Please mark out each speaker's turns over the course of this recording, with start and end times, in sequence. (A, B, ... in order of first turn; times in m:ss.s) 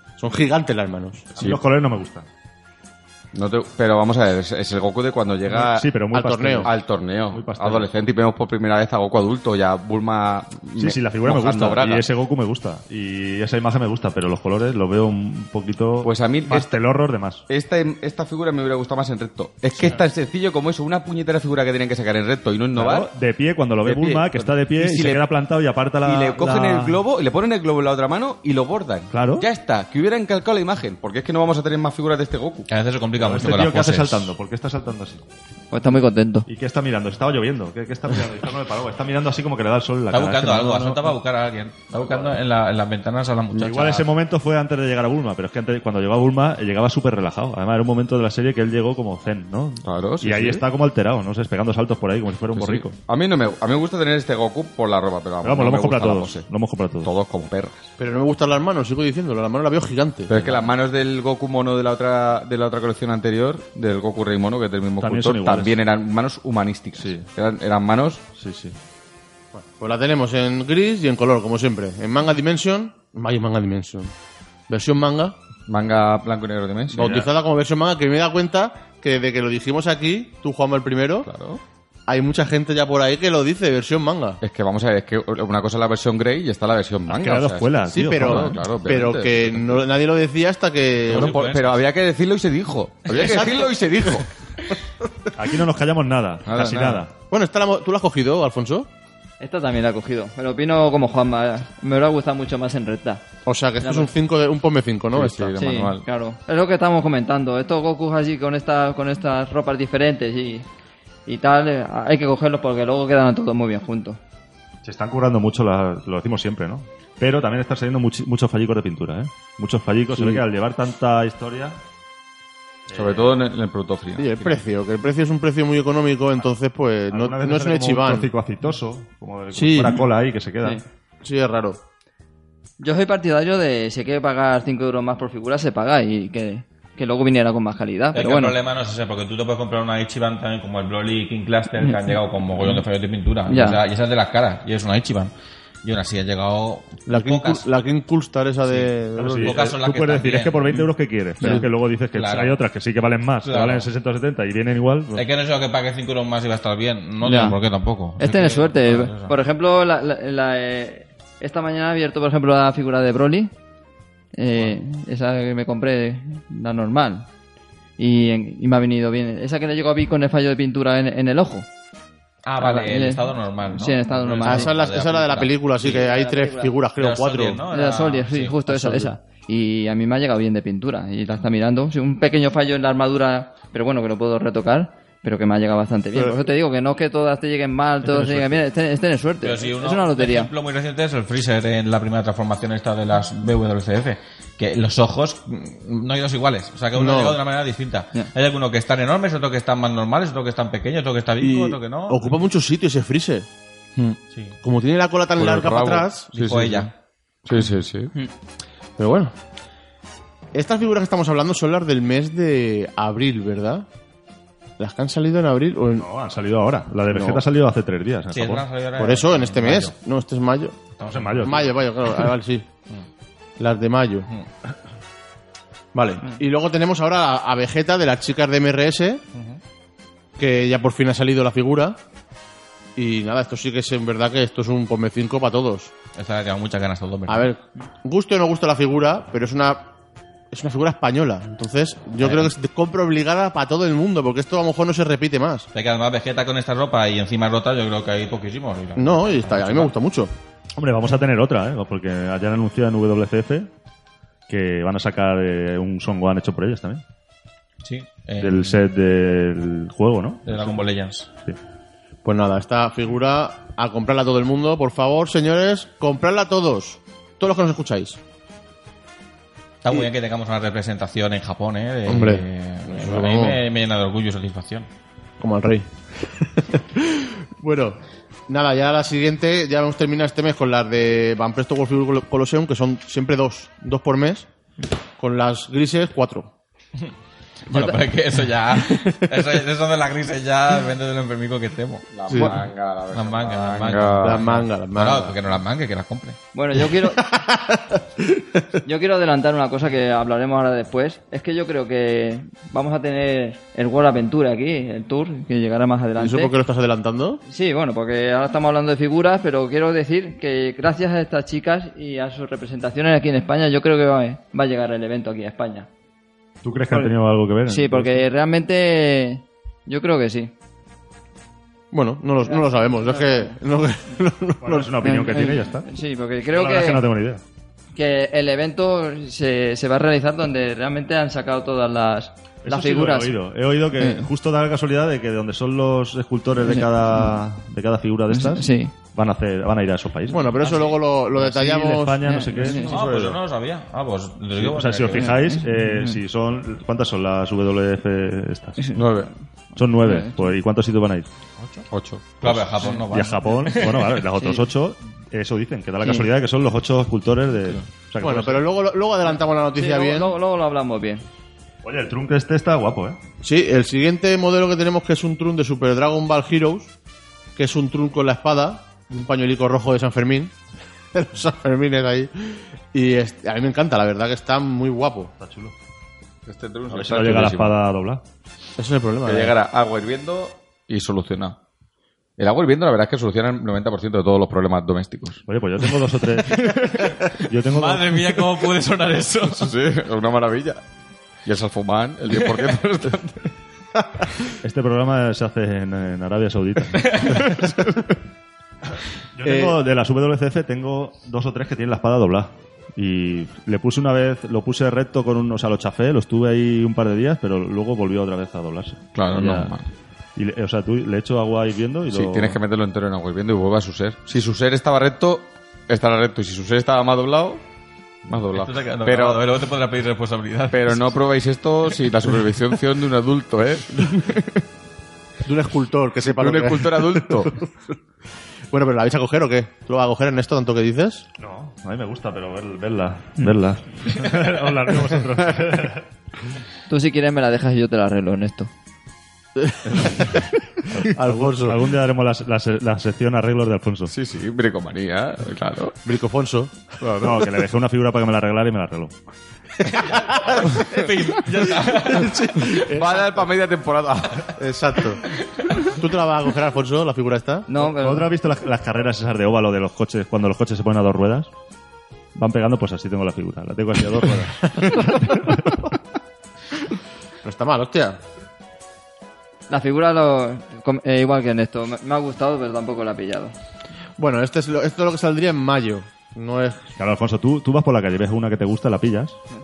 0:00.2-0:01.4 A
0:01.4-0:02.3 B
0:03.3-0:05.9 C
0:05.5-0:06.7 B
0:06.1-0:06.7 A
0:06.6-0:12.1 C
0:07.3-0:07.9 B
0:10.8-0:17.4 B
0:16.0-0:16.7 C
0:17.5-0:23.1 C
0:22.7-0:27.0 B
0:23.8-0:25.2 C
0:26.0-0:32.7 C
0:29.1-0:29.5 B
0:32.7-0:34.3 D
0:33.2-0:35.2 B
0:35.7-0:36.5 E
0:36.5-0:41.1 B
0:40.1-0:44.1 D
0:42.1-0:42.3 C
0:43.5-0:53.0 B
0:49.8-0:50.7 C
0:52.5-0:56.5 C
0:55.4-0:57.1 B
0:57.0-0:57.9 C
0:58.0-1:00.6 A
1:00.3-1:08.3 C
1:05.0-1:05.8 B
1:07.0-1:07.3 B
1:08.4-1:08.8 B
1:09.5-1:14.1 A
1:14.7-1:15.4 A
1:15.7-1:17.3 C
1:16.9-1:21.3 A
1:17.0-1:17.3 B
1:21.2-1:21.6 C
1:22.1-1:24.4 A
1:24.4-1:29.8 C
1:27.1-1:28.7 B
1:27.9-1:31.3 A
1:31.1-1:31.8 D
1:31.1-1:34.3 C
1:33.1-1:34.2 A
1:35.4-1:37.1 B
1:36.5-1:37.0 C
1:37.3-1:38.9 A
1:39.4-1:43.2 E
1:43.5-1:45.6 A
1:43.8-1:44.1 E
1:45.1-1:46.1 C
1:45.6-1:50.7 E
1:51.3-1:54.2 E
1:54.8-2:01.8 B
2:00.1-2:00.4 A
2:02.9-2:03.3 B
2:02.9-2:04.6 C
2:04.2-2:08.3 A
2:07.1-2:10.8 B
2:09.5-2:10.1 A
2:11.2-2:11.8 A
2:12.8-2:18.6 E
2:18.1-2:25.3 D
2:21.8-2:22.8 E
2:23.5-2:23.8 E
2:25.8-2:27.7 D
2:27.1-2:29.6 A
2:28.6-2:30.8 D
2:29.2-2:35.3 B
2:32.1-2:32.6 D
2:33.4-2:33.9 D
2:35.1-2:39.3 D
2:37.2-2:37.6 E
2:38.2-2:43.5 E
2:44.4-2:47.3 E
2:48.0-2:51.7 E
2:52.4-2:56.0 D
2:52.6-2:54.8 E
2:54.5-2:57.6 A
2:55.8-2:56.7 E
2:57.0-2:58.6 D
2:57.7-3:10.5 E
3:08.0-3:08.6 B
3:09.4-3:22.4 D
3:17.0-3:17.4 A
3:21.4-3:23.5 A
3:24.3-3:24.6 D
3:24.6-3:26.3 A
3:25.4-3:26.9 C
3:26.3-3:26.9 D
3:27.4-3:28.1 C
3:29.0-3:29.3 A
3:30.5-3:33.9 A
3:34.8-3:36.1 A
3:36.0-3:38.6 B
3:37.1-3:37.4 A
3:38.3-3:40.0 D
3:39.0-3:40.8 A
3:41.0-3:41.7 D
3:41.1-3:41.7 B
3:41.4-3:42.7 A
3:43.6-3:44.3 A
3:45.9-3:49.2 A
3:49.3-3:49.6 D
3:50.4-3:52.0 A
3:53.0-3:55.9 A
3:56.2-3:57.5 D
3:57.3-3:59.9 A
4:00.5-4:05.7 A
4:02.2-4:02.5 D
4:05.7-4:09.9 D
4:09.0-4:10.3 A
4:10.8-4:13.7 B
4:14.5-4:17.0 B
4:17.8-4:18.8 D
4:18.4-4:20.8 B
4:20.5-4:21.3 D
4:22.2-4:28.2 A
4:29.8-4:34.9 D
4:32.1-4:33.6 A
4:35.4-4:44.5 A
4:45.2-4:46.5 A
4:47.7-4:52.5 D
4:47.7-4:48.0 E
4:48.9-4:49.2 A
4:52.1-4:54.4 C
4:52.3-4:52.6 A
4:53.1-4:56.4 D
4:54.2-4:55.4 A
4:56.5-4:57.2 E
4:57.0-4:58.5 A
4:58.8-5:06.5 E
5:06.2-5:07.4 A
5:07.5-5:15.9 E
5:16.6-5:18.3 B
5:17.7-5:20.5 E
5:21.9-5:25.1 A
5:22.4-5:23.6 E
5:24.6-5:25.9 B
5:25.0-5:27.1 E
5:26.5-5:27.4 B
5:28.0-5:33.4 E
5:32.6-5:40.6 B
5:34.0-5:34.3 E
5:36.6-5:37.3 E
5:38.3-5:38.9 E
5:40.3-5:42.8 A
5:40.6-5:41.0 D
5:41.4-5:43.0 B
5:42.2-5:42.9 E
5:42.9-5:45.4 D
5:44.6-5:48.8 B
5:45.2-5:46.2 E
5:48.9-5:49.3 C
5:49.8-5:51.3 B
5:50.0-5:50.5 E
5:51.6-5:51.9 D
5:51.9-5:52.7 C
5:52.4-5:54.2 D
5:53.0-5:58.6 B
5:54.4-5:54.6 E
5:56.0-5:56.3 E
5:58.2-6:00.3 A
5:59.8-6:01.2 E
6:01.8-6:03.2 B
6:03.4-6:06.9 A
6:07.6-6:10.5 A
6:11.1-6:15.3 A
6:15.4-6:15.8 B
6:16.5-6:17.8 C
6:16.9-6:18.2 B
6:18.8-6:19.6 A
6:19.2-6:21.6 C
6:22.4-6:25.4 C
6:25.5-6:26.8 B
6:26.6-6:29.7 D
6:27.4-6:28.5 B
6:29.5-6:30.8 C
6:31.4-6:33.5 C
6:34.6-6:37.3 B
6:37.0-6:37.5 D
6:39.4-6:49.7 B
6:39.4-6:39.8 A
6:49.2-6:49.8 C
6:50.4-6:52.6 B
6:52.1-6:57.6 C
6:58.3-6:59.4 C
6:58.5-7:01.2 D
7:00.7-7:04.6 C
7:05.4-7:07.7 A
7:06.2-7:07.6 C
7:08.7-7:11.2 A
7:11.4-7:16.0 B
7:16.9-7:18.7 E
7:19.6-7:20.4 A
7:20.9-7:24.1 B
7:21.0-7:21.8 A
7:24.1-7:26.0 C
7:26.0-7:27.3 A
7:27.0-7:27.4 C
7:27.2-7:29.2 B
7:29.9-7:32.7 D
7:29.9-7:30.7 A
7:31.7-7:33.4 A
7:32.8-7:34.5 C
7:34.6-7:35.2 A
7:36.0-7:37.7 A
7:37.7-7:38.3 E
7:37.8-7:41.5 B
7:42.4-7:45.5 B
7:44.6-7:45.6 A
7:47.4-7:48.2 A
7:49.7-7:53.5 E
7:54.2-7:56.8 A
7:57.0-7:59.4 B